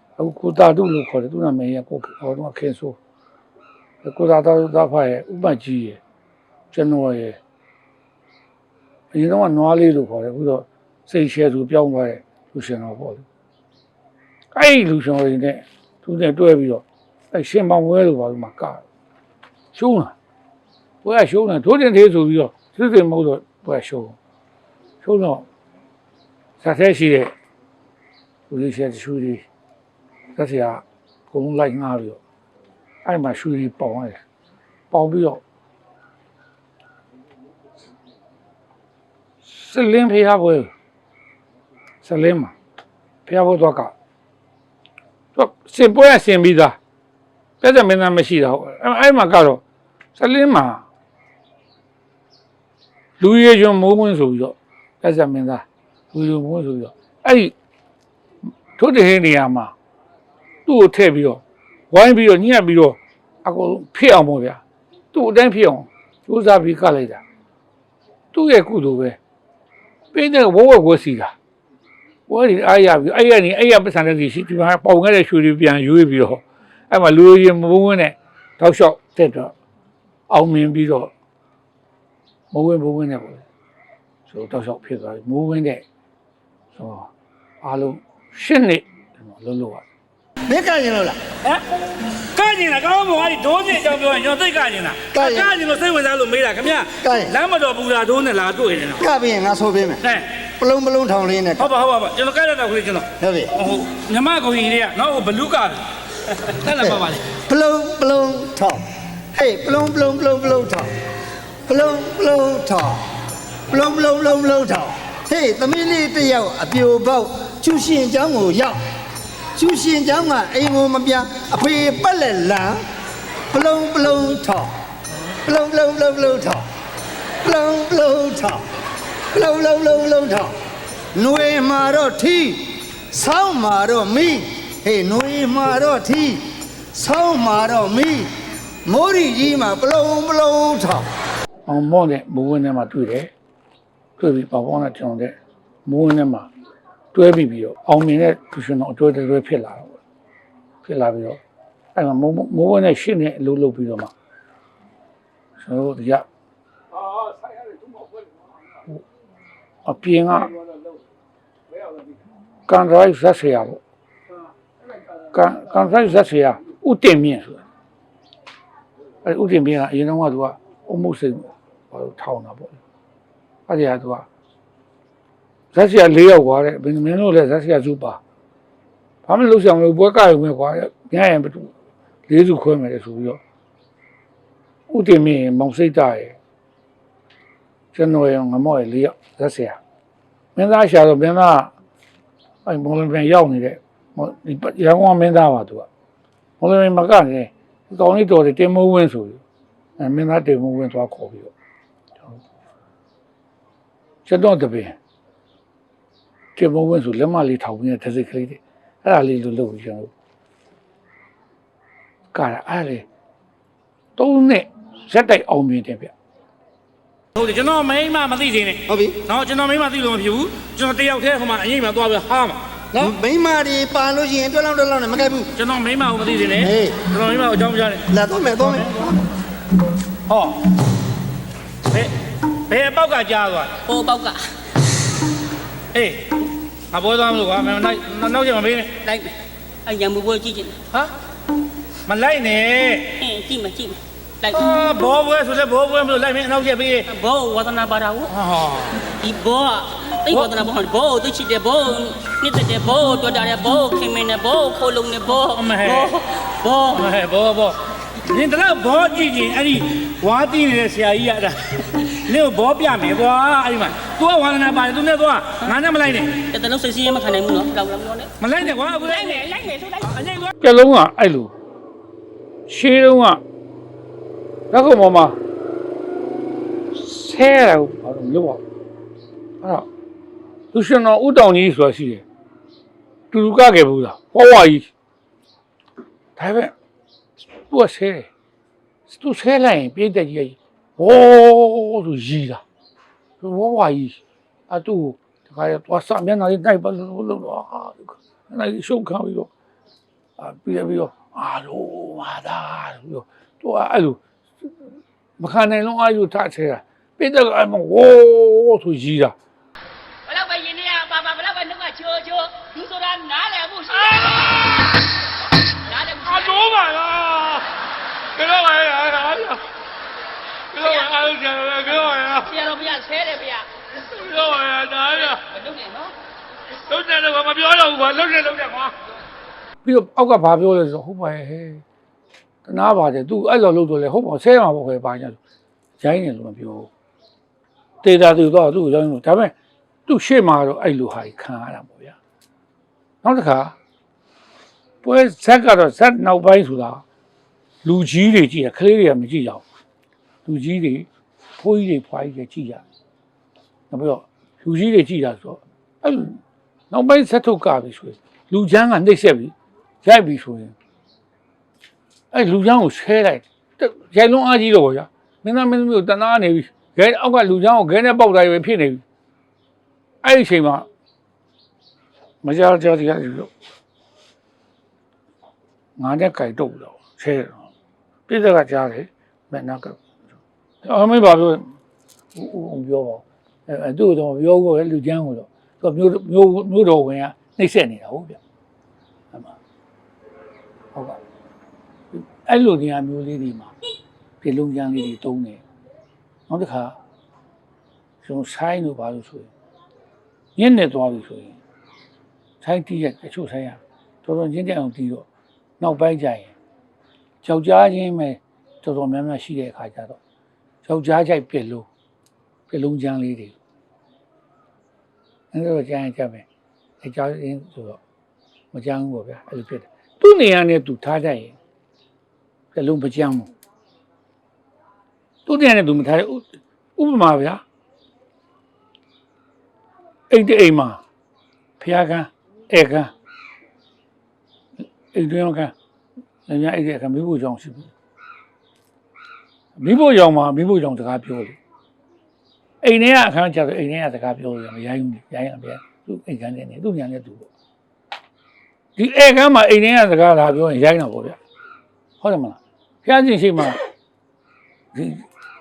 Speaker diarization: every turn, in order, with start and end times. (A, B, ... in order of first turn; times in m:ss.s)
0:00.2-0:03.0 A
0:04.0-0:06.0 A
0:06.7-0:07.4 A
0:09.1-0:13.2 A
0:14.5-0:18.8 A
0:19.7-0:20.2 A
0:21.0-0:24.2 A
0:25.0-0:25.4 A
0:26.6-0:27.3 A
0:28.5-0:29.4 A
0:30.4-0:32.2 A
0:33.0-0:34.2 A
0:34.9-0:35.4 A
0:39.4-0:40.7 A
0:42.0-0:42.5 A
0:43.2-0:43.9 A
0:45.4-0:46.8 A
0:47.6-0:49.6 A
0:50.2-0:50.8 A
0:53.2-0:57.5 A
0:58.8-0:59.7 A
1:00.7-1:04.6 A
1:05.1-1:07.2 A
1:08.3-1:09.2 A
1:10.1-1:11.4 A
1:12.3-1:19.5 A
1:20.3-1:21.1 A
1:22.5-1:23.4 A
1:24.3-1:25.8 A
1:26.8-1:27.1 A
1:27.6-1:29.8 A
1:30.5-1:31.2 B
1:32.3-1:39.1 C
1:35.1-1:35.5 B
1:37.0-1:37.3 B
1:39.0-1:40.0 B
1:40.6-1:41.7 B
1:41.6-1:47.2 C
1:43.2-1:43.5 B
1:46.8-1:48.8 B
1:49.3-1:50.9 B
1:51.7-1:53.0 B
1:53.7-1:58.8 B
1:59.6-2:02.8 B
2:03.5-2:04.7 B
2:05.4-2:06.6 B
2:07.4-2:08.6 B
2:09.3-2:10.5 B
2:11.1-2:18.3 B
2:18.9-2:21.1 B
2:21.7-2:23.3 A
2:24.2-2:25.4 A
2:25.9-2:26.5 A
2:27.1-2:30.0 A
2:30.8-2:31.4 A
2:32.0-2:34.1 A
2:35.6-2:36.2 A
2:39.8-2:40.6 A
2:42.7-2:43.8 A
2:45.3-2:47.6 A
2:49.2-2:52.8 A
2:53.7-2:54.3 A
2:55.7-2:58.2 A
2:59.2-3:01.7 A
3:02.3-3:03.4 A
3:04.9-3:06.4 A
3:07.9-3:09.8 A
3:10.6-3:11.7 A
3:12.7-3:15.9 A
3:16.6-3:19.4 A
3:20.0-3:21.5 A
3:24.2-3:25.0 A
3:26.6-3:30.1 A
3:32.3-3:33.1 A
3:34.2-3:36.1 A
3:37.4-3:43.0 C
3:38.9-3:39.2 B
3:42.9-3:45.5 B
3:45.6-3:48.1 C
3:46.6-3:47.0 B
3:48.1-3:49.2 B
3:48.6-3:49.1 C
3:50.3-3:50.6 C
3:52.7-3:53.7 C
3:53.9-3:54.4 D
3:55.9-3:56.4 C
3:56.9-3:59.0 C
3:59.0-3:59.3 D
3:59.9-4:00.8 D
4:02.1-4:03.1 C
4:03.2-4:04.6 D
4:04.5-4:07.1 C
4:07.1-4:08.3 D
4:08.3-4:09.0 C
4:09.2-4:17.1 D
4:15.3-4:16.1 C
4:16.9-4:26.5 C
4:26.5-4:28.3 D
4:28.4-4:29.4 C
4:29.0-4:30.1 D
4:30.0-4:30.5 C
4:30.6-4:31.5 A
4:32.7-4:33.4 A
4:34.7-4:35.4 A
4:36.9-4:38.6 A
4:39.6-4:39.9 A
4:40.7-4:42.2 A
4:43.3-4:44.9 A
4:46.4-4:46.7 A
4:47.7-4:48.3 A
4:49.1-4:52.6 A
4:53.4-4:59.5 A
5:00.4-5:04.7 A
5:05.4-5:09.4 A
5:10.3-5:15.0 D
5:15.9-5:16.8 D
5:16.5-5:17.6 C
5:18.4-5:19.3 D
5:18.6-5:19.5 C
5:20.7-5:24.4 D
5:21.3-5:22.3 C
5:24.5-5:25.0 C
5:25.0-5:26.1 D
5:26.9-5:28.9 C
5:29.8-5:31.8 A
5:32.6-5:35.4 A
5:36.0-5:36.9 A
5:38.0-5:39.5 A
5:40.1-5:42.2 A
5:43.2-5:43.8 A
5:45.0-5:47.0 A
5:47.8-5:49.6 A
5:50.4-5:51.1 A
5:51.6-5:52.8 A
5:53.9-6:00.8 A
6:02.3-6:09.0 A
6:10.2-6:10.9 A
6:12.4-6:13.5 A
6:16.0-6:17.7 A
6:18.3-6:20.0 A
6:20.8-6:21.7 A
6:22.3-6:28.4 A
6:30.9-6:31.2 A
6:32.1-6:33.7 A
6:34.4-6:35.6 A
6:36.5-6:37.0 A
6:38.2-6:39.5 A
6:40.6-6:41.6 A
6:42.6-6:45.3 A
6:45.8-6:46.5 A
6:47.4-6:50.2 A
6:50.8-6:51.9 A
6:52.7-6:53.6 A
6:55.5-6:56.5 A
6:57.0-6:58.0 A
6:58.7-7:01.6 A
7:02.7-7:03.5 A
7:05.5-7:07.6 A
7:10.3-7:11.0 A
7:11.8-7:13.1 A
7:15.1-7:15.7 A
7:16.5-7:17.9 A
7:19.8-7:21.6 A
7:22.8-7:27.5 A
7:29.0-7:31.4 A
7:32.2-7:33.8 A
7:34.9-7:35.3 A